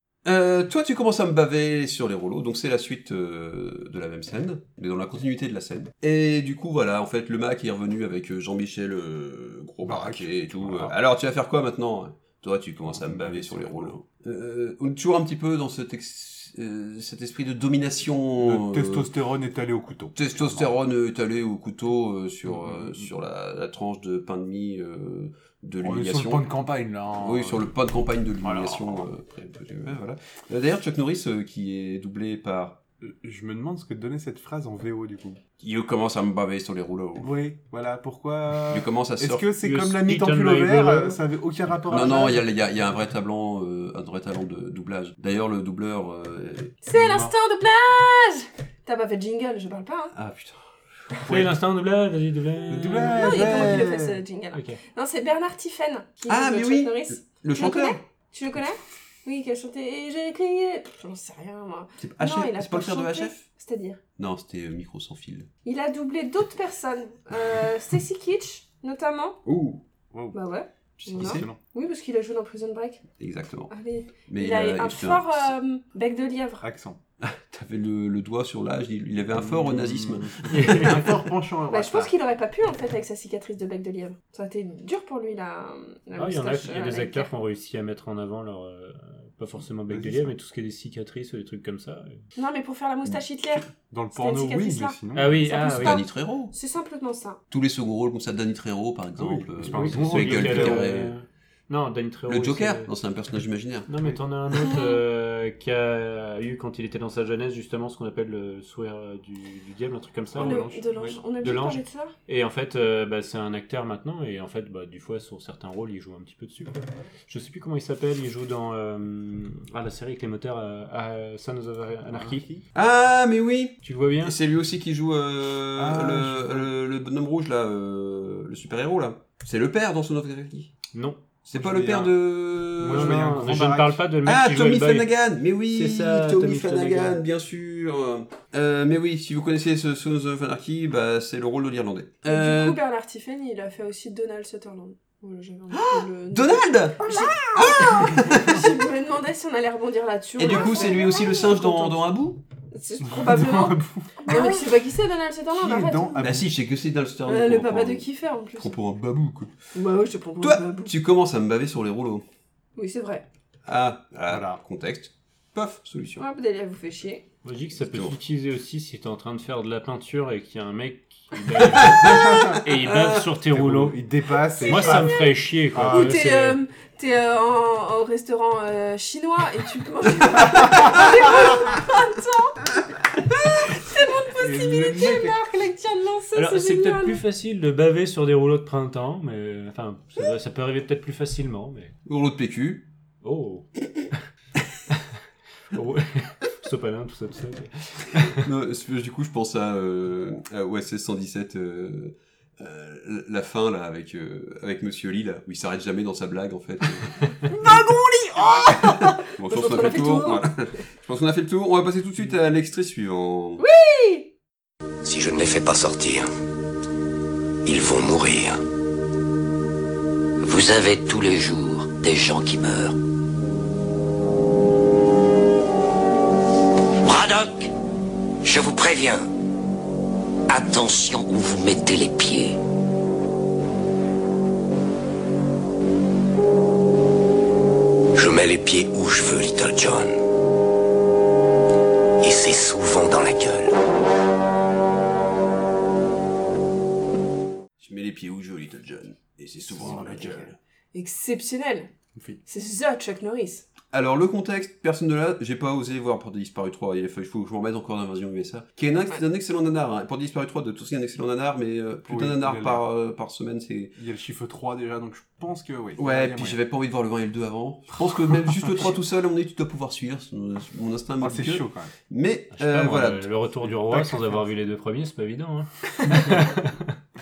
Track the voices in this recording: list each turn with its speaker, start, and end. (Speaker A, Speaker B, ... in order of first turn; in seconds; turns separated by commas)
Speaker A: 0.2-19.1, Speaker B: 9.8-10.9, Speaker B: 12.9-14.0, Speaker B: 18.4-20.7, Speaker A: 20.2-26.5, Speaker B: 22.4-23.1, Speaker B: 25.8-27.7, Speaker A: 27.2-32.8, Speaker B: 28.4-29.1, Speaker B: 33.0-35.4, Speaker A: 35.6-37.3, Speaker B: 37.2-42.5, Speaker A: 38.7-39.5, Speaker C: 39.6-41.2, Speaker A: 41.9-46.8, Speaker D: 46.8-50.1, Speaker B: 46.9-47.3, Speaker A: 50.1-50.6, Speaker C: 51.3-53.8, Speaker B: 52.7-54.2, Speaker D: 53.0-64.0, Speaker C: 54.5-54.8, Speaker A: 56.3-58.0, Speaker A: 62.0-63.5, Speaker A: 64.2-65.5, Speaker D: 65.6-69.4, Speaker A: 69.5-69.8, Speaker B: 70.1-70.4, Speaker D: 70.3-73.0, Speaker A: 71.0-71.5, Speaker B: 71.2-71.6, Speaker A: 73.2-73.7, Speaker D: 73.7-76.7, Speaker A: 74.3-75.5, Speaker B: 76.6-77.0, Speaker A: 77.2-81.1, Speaker B: 79.3-82.1, Speaker C: 80.5-81.1, Speaker D: 81.7-87.3, Speaker C: 86.2-92.2, Speaker B: 89.9-90.3, Speaker D: 92.4-97.4, Speaker B: 93.7-95.6, Speaker C: 95.2-96.0, Speaker A: 95.6-96.5, Speaker A: 97.5-101.2, Speaker B: 99.2-100.9, Speaker C: 99.7-102.9, Speaker A: 102.3-103.9, Speaker C: 103.9-110.7, Speaker B: 110.3-111.2, Speaker D: 110.4-112.1, Speaker C: 111.4-116.8, Speaker C: 117.3-122.5, Speaker B: 122.1-122.6, Speaker A: 122.7-130.7, Speaker C: 123.8-124.4, Speaker B: 125.8-126.7, Speaker C: 130.9-131.2, Speaker A: 131.5-133.2, Speaker B: 131.5-134.1, Speaker C: 132.8-135.1, Speaker A: 134.2-142.8, Speaker C: 135.7-137.2, Speaker D: 142.2-152.1, Speaker A: 145.7-148.7, Speaker A: 150.4-152.4, Speaker B: 150.5-150.8, Speaker D: 152.7-156.3, Speaker B: 153.0-154.3, Speaker B: 155.5-156.5, Speaker A: 156.2-159.5, Speaker D: 157.3-158.7, Speaker D: 159.7-160.9, Speaker A: 160.4-162.2, Speaker D: 162.8-163.2, Speaker A: 163.7-166.2, Speaker B: 164.3-164.6, Speaker D: 166.2-167.2, Speaker C: 167.4-176.6, Speaker A: 167.8-168.2, Speaker A: 171.7-173.1, Speaker B: 172.1-172.6, Speaker B: 173.5-175.1, Speaker D: 174.6-175.4, Speaker B: 175.7-176.3, Speaker D: 175.9-187.2, Speaker B: 184.4-185.5, Speaker C: 186.3-191.9, Speaker A: 192.1-192.9, Speaker C: 193.2-194.2, Speaker C: 195.7-198.5, Speaker A: 198.3-207.8, Speaker D: 207.5-210.4, Speaker A: 208.3-213.6, Speaker D: 213.6-214.3, Speaker E: 215.0-216.3, Speaker E: 217.6-218.6, Speaker E: 220.4-223.0, Speaker E: 227.1-227.7, Speaker E: 228.4-229.2, Speaker E: 230.5-232.6, Speaker E: 238.2-240.2, Speaker E: 242.2-243.8, Speaker A: 247.8-250.6, Speaker B: 249.7-250.5, Speaker D: 250.9-251.9, Speaker B: 252.2-252.4, Speaker D: 252.4-253.7, Speaker A: 253.9-263.9, Speaker B: 262.1-262.8, Speaker B: 264.0-266.6, Speaker A: 266.0-273.3, Speaker B: 268.1-268.9, Speaker B: 271.2-271.9, Speaker C: 272.5-276.9, Speaker B: 273.9-274.4